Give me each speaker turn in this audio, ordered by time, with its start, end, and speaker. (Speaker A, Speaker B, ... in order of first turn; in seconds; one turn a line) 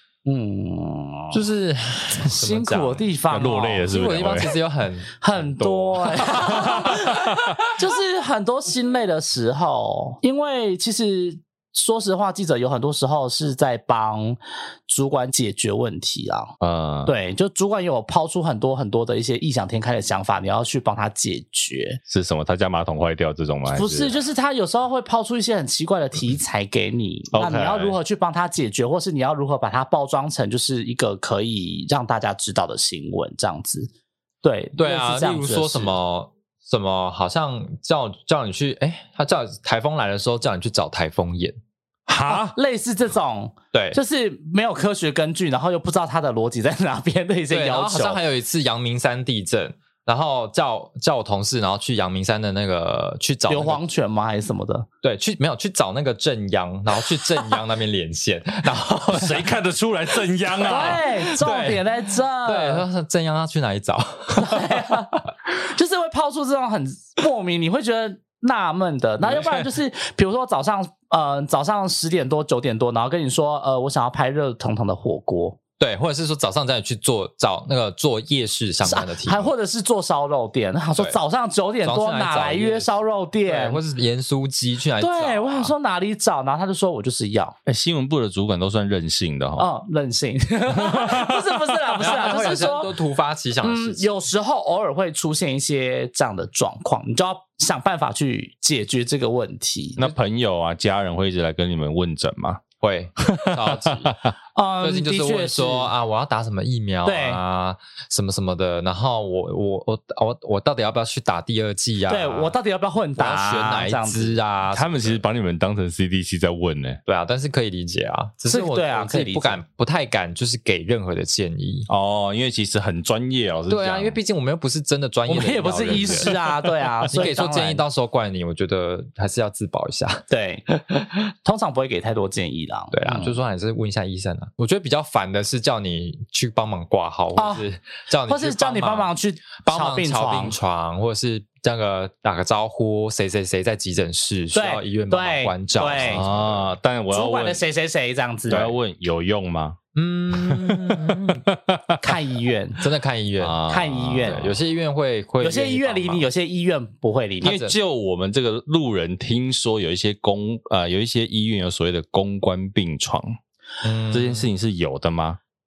Speaker A: 0.2-1.4
Speaker B: 1.3-3.0
Speaker A: 2.2-3.9
Speaker C: 3.3-4.5
Speaker B: 3.9-7.1
Speaker A: 5.2-16.5
Speaker C: 6.3-7.1
Speaker C: 16.6-17.1
Speaker A: 17.1-22.0
Speaker C: 22.1-24.2
Speaker A: 23.7-33.9
Speaker C: 27.3-28.0
Speaker A: 34.4-35.9
Speaker B: 34.8-41.6
Speaker C: 42.1-42.5
Speaker A: 42.2-48.2
Speaker B: 43.7-44.0
Speaker B: 47.5-53.8
Speaker A: 53.5-54.9
Speaker B: 55.0-59.5
Speaker C: 59.1-61.3
Speaker A: 60.6-62.8
Speaker B: 60.7-61.8
Speaker B: 62.4-65.0
Speaker A: 64.3-75.6
Speaker B: 75.8-79.5
Speaker A: 78.8-83.8
Speaker B: 81.8-82.9
Speaker B: 83.5-85.7
Speaker A: 85.0-87.5
Speaker C: 87.7-89.7
Speaker A: 89.6-92.9
Speaker C: 90.7-92.2
Speaker B: 92.0-94.1
Speaker A: 93.6-100.1
Speaker C: 100.0-102.6
Speaker B: 102.8-104.2
Speaker C: 103.2-104.3
Speaker A: 104.5-105.9
Speaker B: 104.8-112.6
Speaker A: 107.0-107.4
Speaker A: 112.1-114.4
Speaker B: 113.2-115.2
Speaker C: 114.7-117.0
Speaker B: 117.0-121.9
Speaker A: 118.5-119.6
Speaker C: 121.9-124.2
Speaker B: 123.7-126.3
Speaker A: 125.3-127.8
Speaker C: 125.9-126.3
Speaker B: 127.1-130.2
Speaker A: 130.3-133.3
Speaker B: 132.9-139.1
Speaker A: 137.3-137.6
Speaker A: 138.3-140.6
Speaker B: 139.6-146.7
Speaker A: 144.5-146.3
Speaker C: 145.9-147.6
Speaker A: 147.1-148.7
Speaker C: 148.5-149.8
Speaker B: 149.9-151.4
Speaker C: 150.3-152.2
Speaker A: 152.0-152.8
Speaker B: 152.8-153.7
Speaker C: 153.4-154.6
Speaker A: 153.7-154.4
Speaker B: 154.2-156.3
Speaker A: 155.4-157.6
Speaker C: 157.4-163.4
Speaker B: 157.5-157.7
Speaker B: 163.8-164.5
Speaker C: 164.1-165.4